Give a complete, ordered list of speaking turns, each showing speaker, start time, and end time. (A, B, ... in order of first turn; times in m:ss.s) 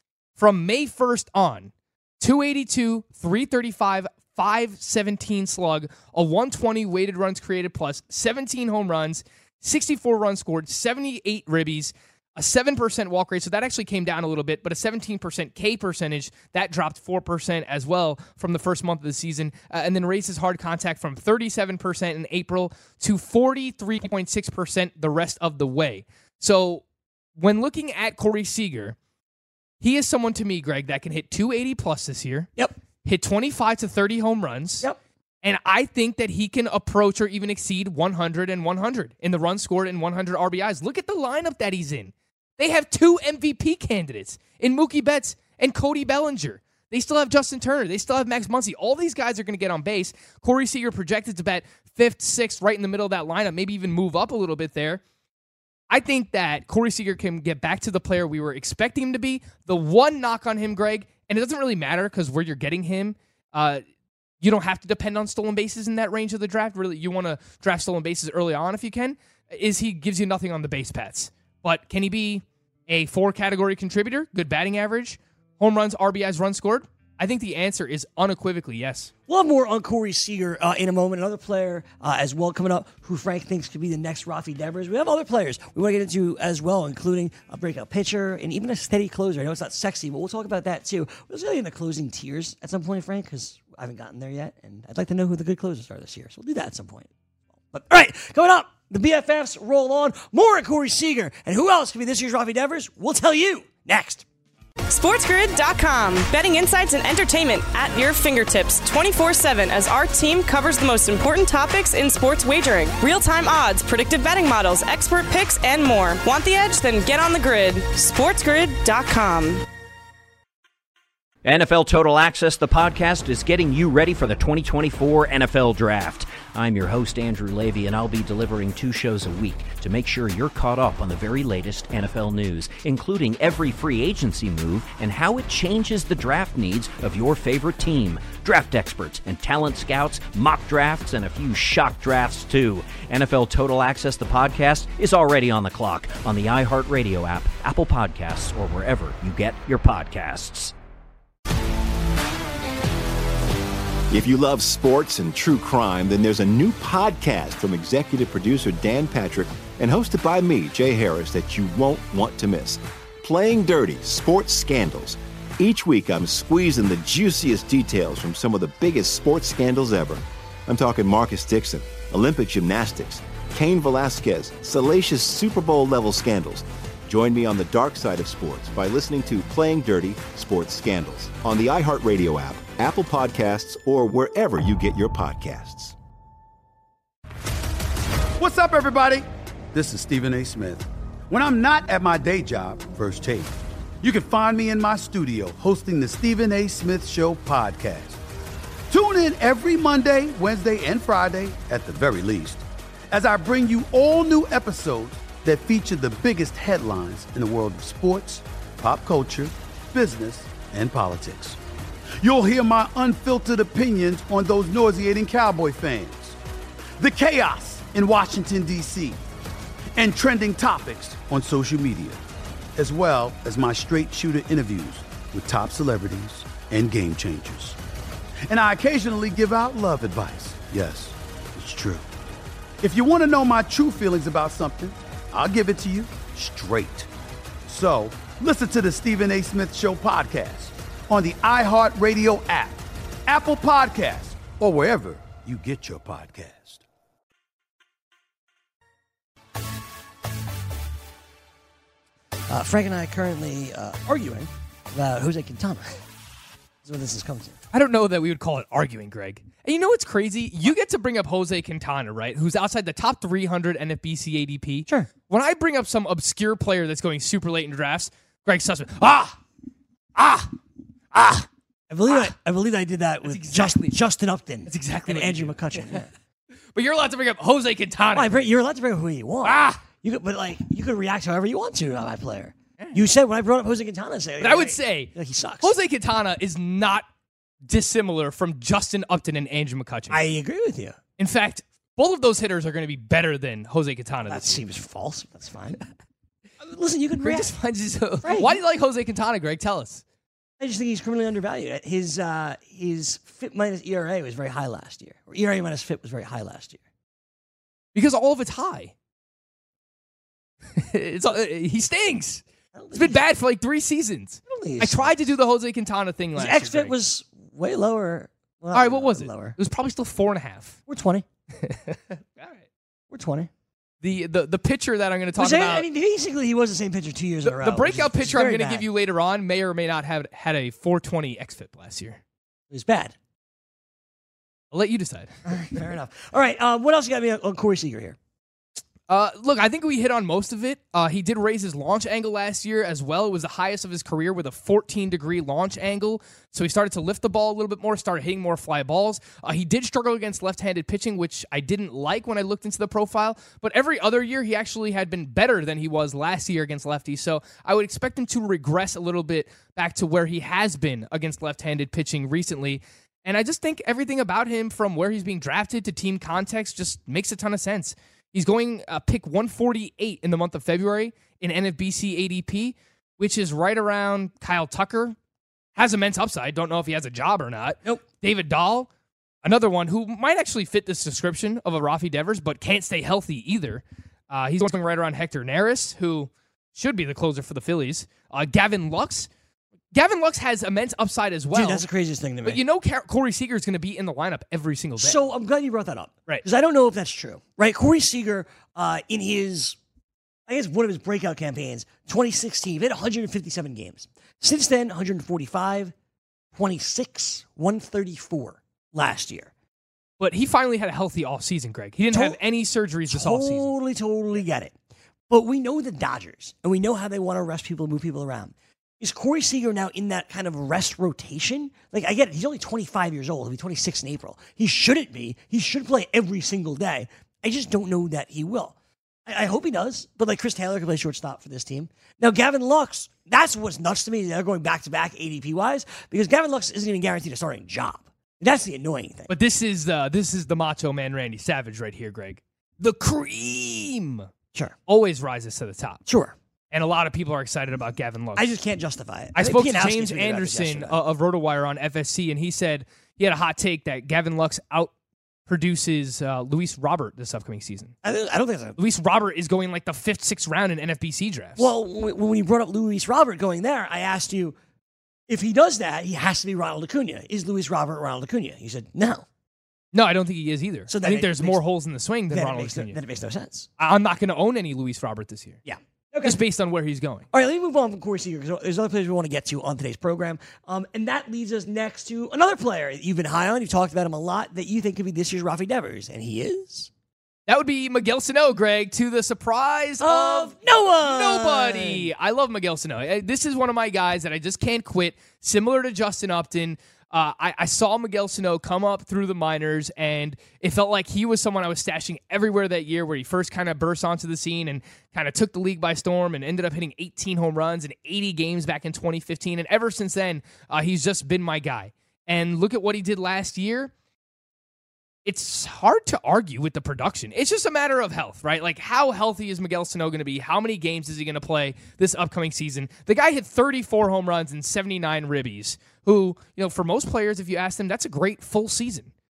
0:00.4-0:26.8 A
0:27.4-0:29.0 A
0:29.8-0:32.5 A
0:33.0-0:34.9 A
0:35.4-0:55.0 A
0:55.9-1:03.8 A
1:04.4-1:19.1 A
1:19.3-1:37.1 B
1:37.7-1:44.2 B
1:44.9-1:59.6 C
2:01.4-2:30.7 D
2:34.1-3:06.0 E
3:08.4-3:18.2 F
3:18.9-3:31.6 F
3:32.2-3:36.4 F
3:37.0-3:39.2 F
3:40.0-3:42.2 F
3:42.8-3:47.8 F
3:48.5-3:52.1 F
3:52.8-3:57.1 F
3:57.7-4:06.8 F
4:12.5-4:16.0 B
4:16.8-4:17.6 B
4:17.7-4:29.4 A
4:24.9-4:25.1 B
4:30.2-4:30.5 B
4:31.1-4:36.1 B
4:33.2-4:33.9 A
4:34.7-4:36.0 A
4:36.7-4:38.4 A
4:38.1-4:45.7 B
4:39.4-4:39.8 A
4:44.4-4:47.0 A
4:47.7-4:50.2 A
4:50.1-4:51.0 B
4:51.2-4:54.6 A
4:54.3-4:55.8 B
4:56.6-4:57.5 B
4:57.2-5:00.0 A
4:58.2-4:58.6 B
5:00.6-5:06.8 B
5:07.9-5:08.9 A
5:10.7-5:12.4 A
5:12.7-5:13.2 B
5:12.9-5:17.0 A
5:14.5-5:15.1 B
5:16.4-5:19.6 B
5:18.7-5:20.8 A
5:20.9-5:21.2 B
5:21.6-5:22.6 A
5:23.1-5:23.5 B
5:24.0-5:25.9 A
5:25.4-5:28.9 B
5:27.4-5:32.2 A
5:32.7-5:33.1 B
5:34.7-5:35.8 A
5:35.4-5:38.2 B
5:39.1-6:15.2 A
6:15.8-6:18.9 A
6:19.4-6:29.3 A
6:29.9-6:31.9 A
6:31.5-6:32.6 B
6:32.4-6:35.2 A
6:35.0-6:39.8 B
6:40.5-6:45.9 B
6:46.5-6:49.5 B
6:50.2-6:53.7 A
6:52.1-6:52.4 B
6:53.1-6:54.7 B
6:55.3-7:08.7 B
7:09.3-7:19.3 B
7:19.3-7:24.3 A
7:24.9-7:26.0 A
7:26.1-7:26.4 B
7:26.7-7:28.4 A
7:28.4-7:31.0 B
7:29.3-7:34.9 A
7:35.5-7:37.9 A
7:38.0-7:38.8 B
7:38.8-7:41.7 A
7:41.6-7:44.6 B
7:45.3-7:49.2 B
7:49.9-7:53.0 A
7:50.9-7:51.6 B
7:52.3-7:53.7 B
7:53.8-7:55.6 A
7:55.6-7:56.4 B
7:56.2-7:57.2 A
7:57.3-8:06.9 B
8:07.5-8:33.9 A
8:10.0-8:12.1 B
8:35.2-8:49.1 A